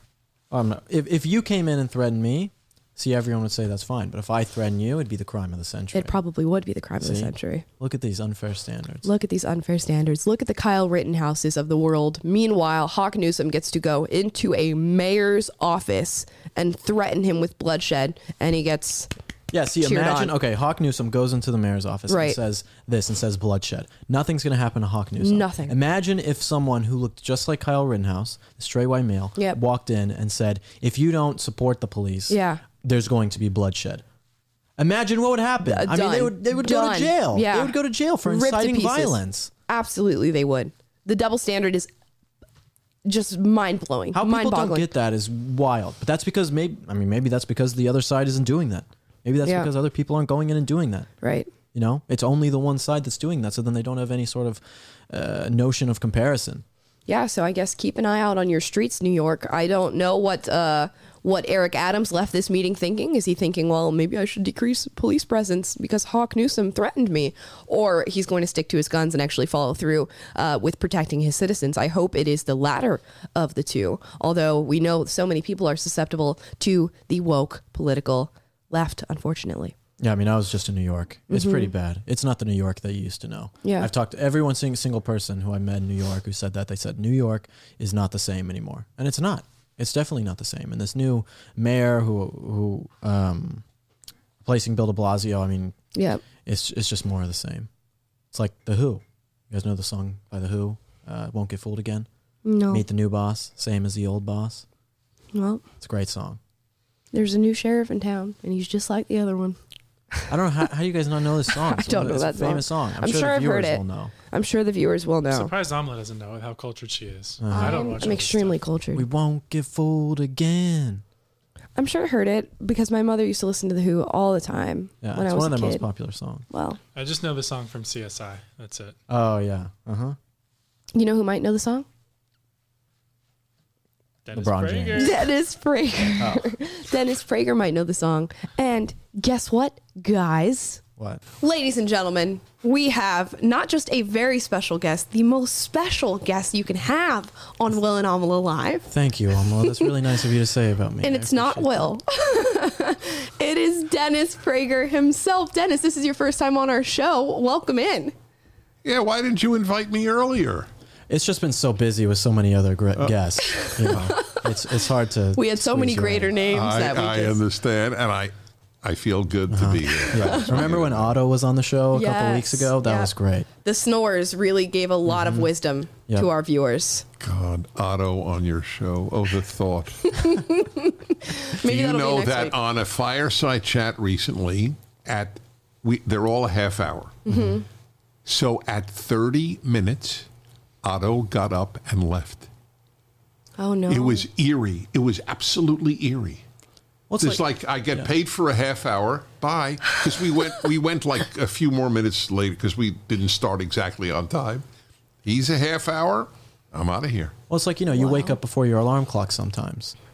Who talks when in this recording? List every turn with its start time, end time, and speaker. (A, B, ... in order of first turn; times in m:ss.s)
0:00.5-0:06.1 A
0:05.9-0:07.6 B
0:07.0-0:09.1 A
0:09.0-0:19.1 B
0:19.5-0:34.0 A
0:19.8-0:20.3 B
0:22.1-0:22.4 B
0:25.2-0:25.7 B
0:32.3-0:32.6 B
0:34.8-0:39.5 A
0:35.6-0:41.9 B
0:43.0-0:44.9 B
0:44.1-0:51.1 A
0:49.4-0:49.7 B
0:51.2-0:51.5 B
0:51.7-0:56.6 A
0:57.1-1:19.7 B
1:20.0-1:33.6 A
1:21.3-1:21.7 B
1:23.6-1:23.9 B
1:34.4-1:37.7 A
1:35.9-1:36.2 B
1:38.3-1:42.1 A
1:42.4-1:42.8 B
1:42.7-1:44.6 A
1:45.3-1:45.6 B
1:45.8-1:46.4 A
1:47.1-1:49.6 B
1:50.3-1:54.1 A
1:51.7-1:55.5 B
1:55.3-1:58.6 C
1:57.4-1:58.0 A
1:57.5-1:59.0 B
1:58.9-2:01.0 A
2:01.8-2:05.8 B
2:05.0-2:06.4 A
2:06.5-2:06.8 B
2:06.9-2:09.0 C
2:09.1-2:10.2 A
2:10.9-2:11.8 B
2:14.2-2:15.2 C
2:14.3-2:15.1 A
2:15.0-2:20.8 B
2:16.2-2:16.5 A
2:21.4-2:28.9 B
2:28.9-2:31.8 A
2:29.6-2:29.9 B
2:31.0-2:38.1 B
2:38.8-2:40.7 D
2:41.1-2:46.3 A
2:43.5-2:44.4 B
2:45.4-2:47.4 B
2:46.4-2:51.1 D
2:49.5-2:53.5 A
2:50.0-2:50.4 B
2:51.9-2:53.1 B
2:53.6-2:57.0 B
2:55.1-2:55.5 A
2:57.2-3:00.4 D
3:00.0-3:02.5 B
3:01.6-3:07.2 D
3:07.2-3:07.6 B
3:07.3-3:07.6 A
3:08.2-3:10.3 D
3:10.8-3:12.5 D
3:13.6-3:14.2 B
3:13.9-3:16.4 D
3:17.1-3:17.4 A
3:17.2-3:24.6 D
3:25.2-3:27.3 D
3:27.5-3:30.0 A
3:27.9-3:28.3 B